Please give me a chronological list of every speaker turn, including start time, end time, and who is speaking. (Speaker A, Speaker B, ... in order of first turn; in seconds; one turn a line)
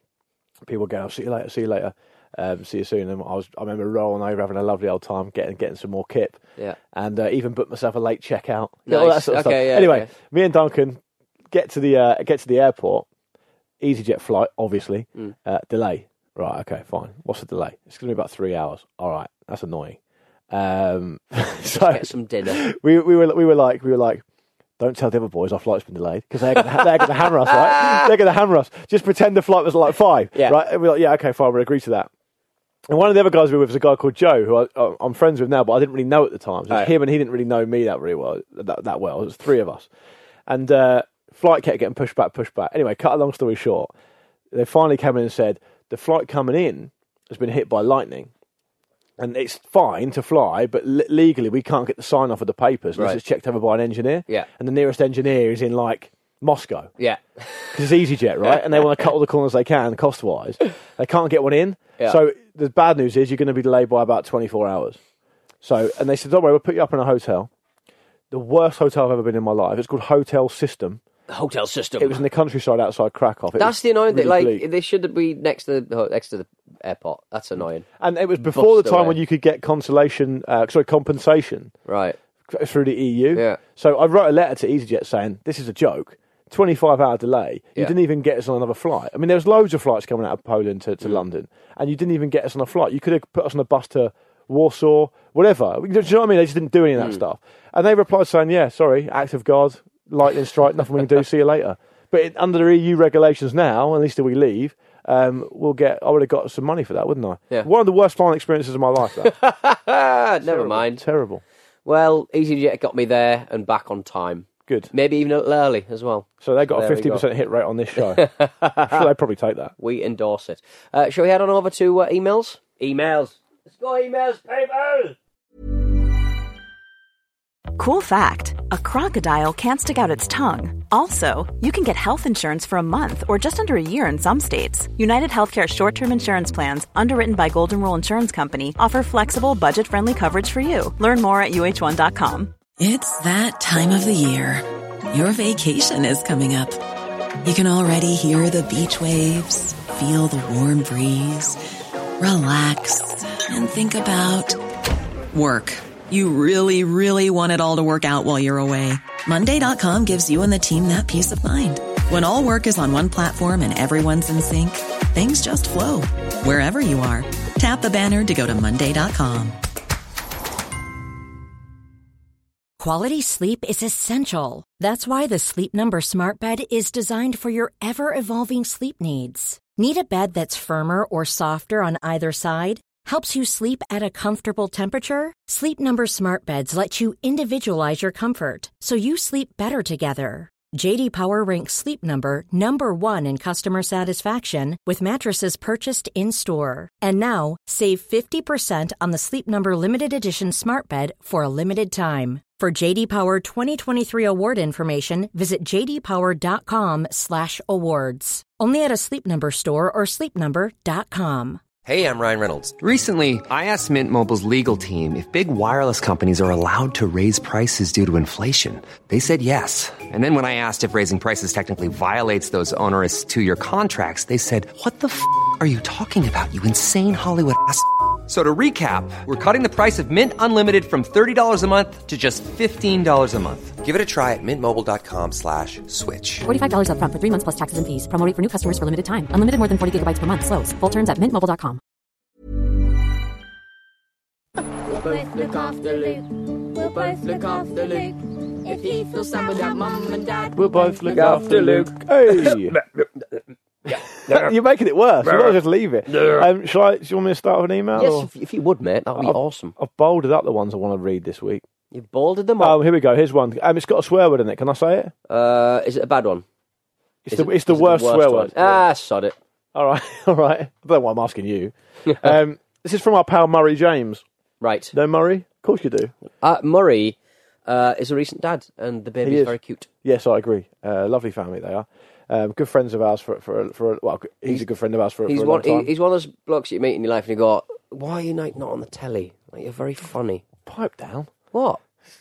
Speaker A: 0.6-6.4
Speaker A: 6.9-13.1
Speaker B: 8.9-10.1
Speaker A: 13.8-20.0
Speaker A: 20.5-24.2
Speaker B: 21.7-22.6
Speaker A: 24.8-32.1
Speaker B: 26.7-28.1
Speaker A: 32.9-39.9
Speaker A: 40.5-43.9
Speaker A: 44.5-48.3
Speaker A: 49.2-56.9
Speaker B: 57.0-57.8
Speaker A: 57.7-65.0
Speaker A: 65.6-67.5
Speaker A: 68.3-71.0
Speaker B: 71.3-72.2
Speaker A: 72.0-74.6
Speaker B: 73.5-77.9
Speaker A: 78.0-81.7
Speaker B: 78.4-79.2
Speaker B: 81.9-82.2
Speaker A: 82.5-109.3
Speaker B: 83.3-83.6
Speaker B: 109.2-111.0
Speaker A: 110.4-111.4
Speaker B: 111.8-117.2
Speaker A: 116.4-118.3
Speaker B: 118.0-119.0
Speaker A: 118.8-119.7
Speaker B: 119.8-125.2
Speaker C: 127.8-142.6
Speaker D: 142.8-146.8
Speaker D: 147.4-151.6
Speaker D: 152.2-154.6
Speaker D: 155.3-169.6
Speaker E: 172.8-211.6
Speaker F: 211.8-236.5
Speaker G: 236.4-241.8
Speaker H: 244.9-250.5
Speaker A: 250.5-252.7
Speaker B: 251.1-252.7
Speaker B: 253.9-254.5
Speaker A: 254.2-258.3
Speaker B: 255.2-255.5
Speaker B: 256.1-256.4
Speaker B: 257.9-259.7
Speaker A: 259.1-261.6
Speaker B: 261.9-262.8
Speaker A: 262.6-265.1
Speaker B: 265.3-266.4
Speaker A: 267.2-268.8
Speaker B: 267.3-269.4
Speaker A: 269.7-274.2
Speaker B: 274.6-274.9
Speaker A: 274.9-276.1
Speaker B: 276.4-277.1
Speaker B: 277.7-279.9
Speaker A: 279.2-285.9
Speaker B: 285.3-290.4
Speaker A: 290.6-291.3
Speaker B: 291.5-291.8